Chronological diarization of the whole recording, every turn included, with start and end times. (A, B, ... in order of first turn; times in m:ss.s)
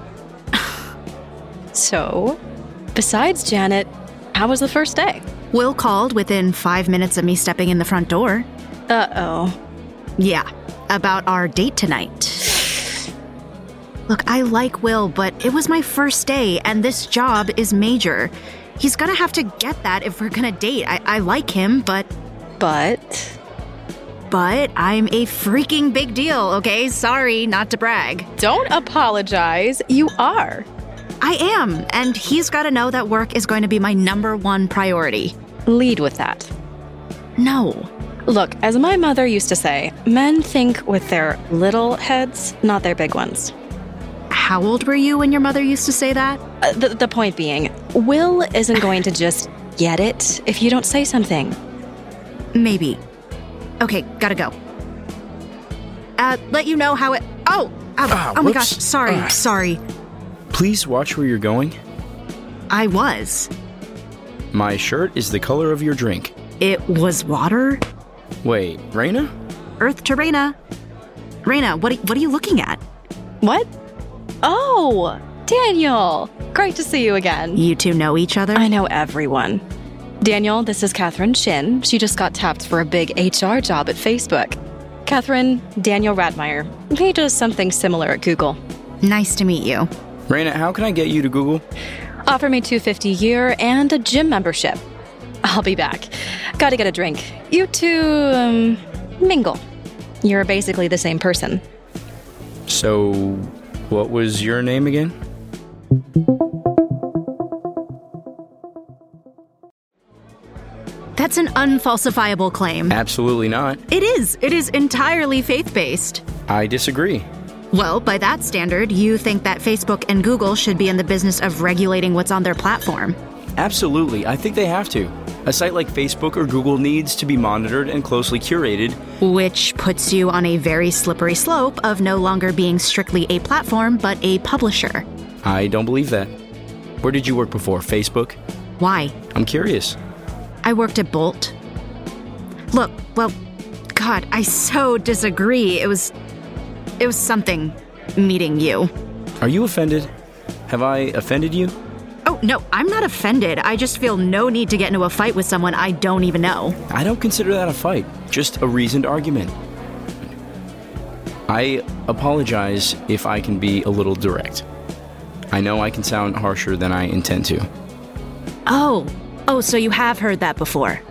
0:01.7-0:02.4 A
0:02.9-0:05.2 A
0:05.5-0:08.5 B
0:08.9-0:09.6 A
0:10.2-0:12.7 B
0:14.1-0:22.1 B
0:22.6-0:23.4 A
0:24.3-0:28.3 B
0:28.4-0:30.7 A
0:31.2-0:35.3 B
0:35.7-0:36.5 A
0:37.4-0:37.9 B
0:38.3-0:43.5 A
0:44.3-0:46.4 B
0:46.6-0:51.6 A
0:52.5-0:53.0 B
0:53.8-0:54.5 B
0:56.2-0:59.8 B
0:58.1-0:59.4 C
1:00.5-1:01.8 C
1:02.7-1:03.5 B
1:04.5-1:06.3 C
1:06.6-1:07.8 B
1:08.4-1:09.3 C
1:09.8-1:10.6 B
1:11.4-1:12.8 B
1:13.4-1:13.7 A
1:14.4-1:17.6 A
1:17.6-1:18.6 B
1:18.5-1:19.6 A
1:20.2-1:28.6 A
1:29.0-1:29.9 B
1:30.3-1:31.6 C
1:32.2-1:34.8 A
1:35.4-1:39.6 A
1:40.2-1:41.6 A
1:42.7-1:45.1 C
1:51.2-1:53.0 B
1:52.9-1:53.8 C
1:53.9-1:56.2 B
1:56.5-1:57.3 C
1:57.7-2:03.2 B
2:03.6-2:09.0 C
2:09.2-2:15.0 B
2:15.4-2:16.3 C
2:17.0-2:18.4 C
2:18.8-2:19.1 B
2:19.3-2:20.0 C
2:20.6-2:21.5 B
2:22.7-2:23.3 B
2:24.0-2:26.1 B
2:27.0-2:28.9 B
2:29.4-2:30.1 C
2:30.7-2:31.7 C
2:32.2-2:36.8 B
2:36.9-2:39.5 C
2:41.5-2:44.6 C
2:45.5-2:47.7 C
2:48.6-2:51.0 B